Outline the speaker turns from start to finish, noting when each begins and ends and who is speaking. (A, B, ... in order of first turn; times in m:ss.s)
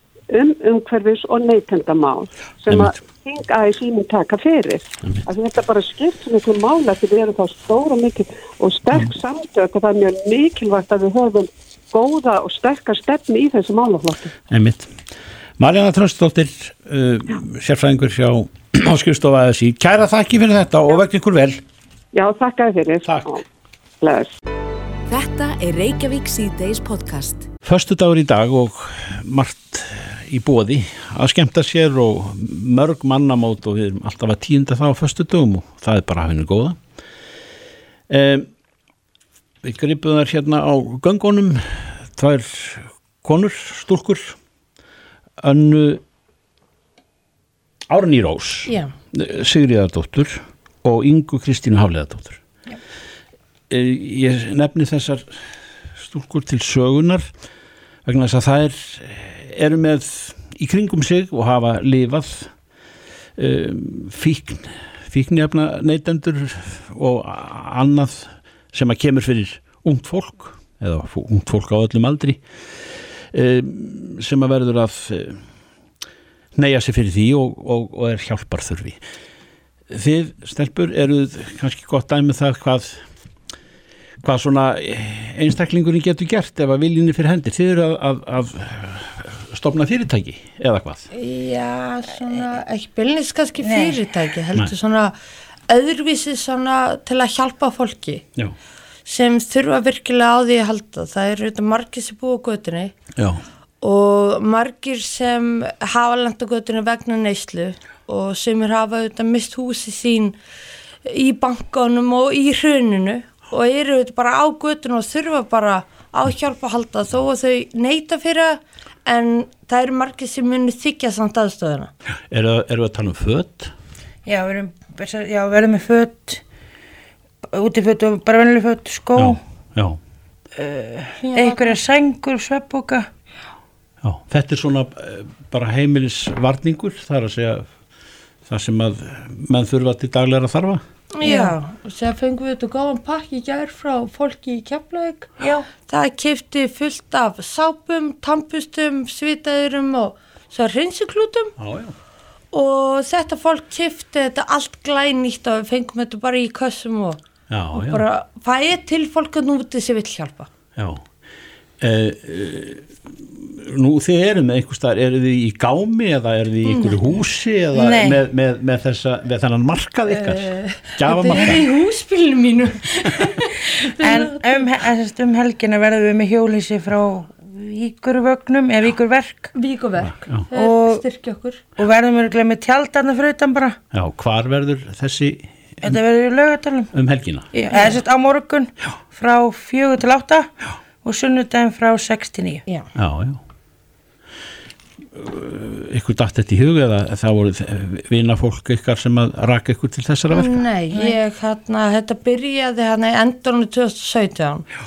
0:00.3-0:14.3 A
0:02.7-0:03.0 B
0:14.5-0:15.0 B
0:15.6-0:21.6 B
0:22.1-0:23.4 A
0:23.0-0:23.4 B
0:24.0-0:24.3 A
0:25.1-0:27.5 C
0:27.6-0:36.8 B
0:38.1-0:38.5 B
0:39.6-0:44.4 B
0:45.4-0:46.0 B
0:47.9-0:52.4 B
0:48.7-0:48.9 D
0:53.7-0:57.3 B
0:58.0-1:02.5 B
1:03.4-1:12.4 B
1:13.3-1:15.4 B
1:16.6-1:19.0 B
1:19.9-1:23.0 B
1:24.2-1:31.1 B
1:31.1-1:35.2 D
1:33.6-1:34.0 E
1:35.7-1:38.2 D
1:39.1-1:42.9 D
1:43.8-1:50.4 D
1:51.0-2:01.9 D
2:02.3-2:03.7 B
2:04.3-2:06.4 E
2:07.5-2:09.4 E
2:09.2-2:10.0 B
2:10.6-2:13.1 E
2:11.2-2:11.8 D
2:14.0-2:17.7 B
2:18.5-2:20.8 B
2:21.2-2:25.3 D
2:25.4-2:25.7 E
2:25.9-2:31.5 D
2:31.6-2:31.9 B
2:32.5-2:37.2 D
2:37.5-2:38.0 B
2:37.7-2:40.5 D
2:40.8-2:41.0 B
2:41.8-2:51.6 B
2:46.6-2:47.2 D
2:47.7-2:48.2 E
2:50.1-2:54.7 D
2:54.0-2:59.5 E
2:59.5-3:01.6 D
3:00.5-3:01.0 E
3:01.8-3:03.8 E
3:03.9-3:06.0 B
3:05.8-3:06.9 E
3:06.9-3:07.5 B
3:07.5-3:10.5 E
3:11.0-3:12.6 E
3:13.0-3:13.4 B
3:15.2-3:20.6 B
3:20.3-3:24.6 D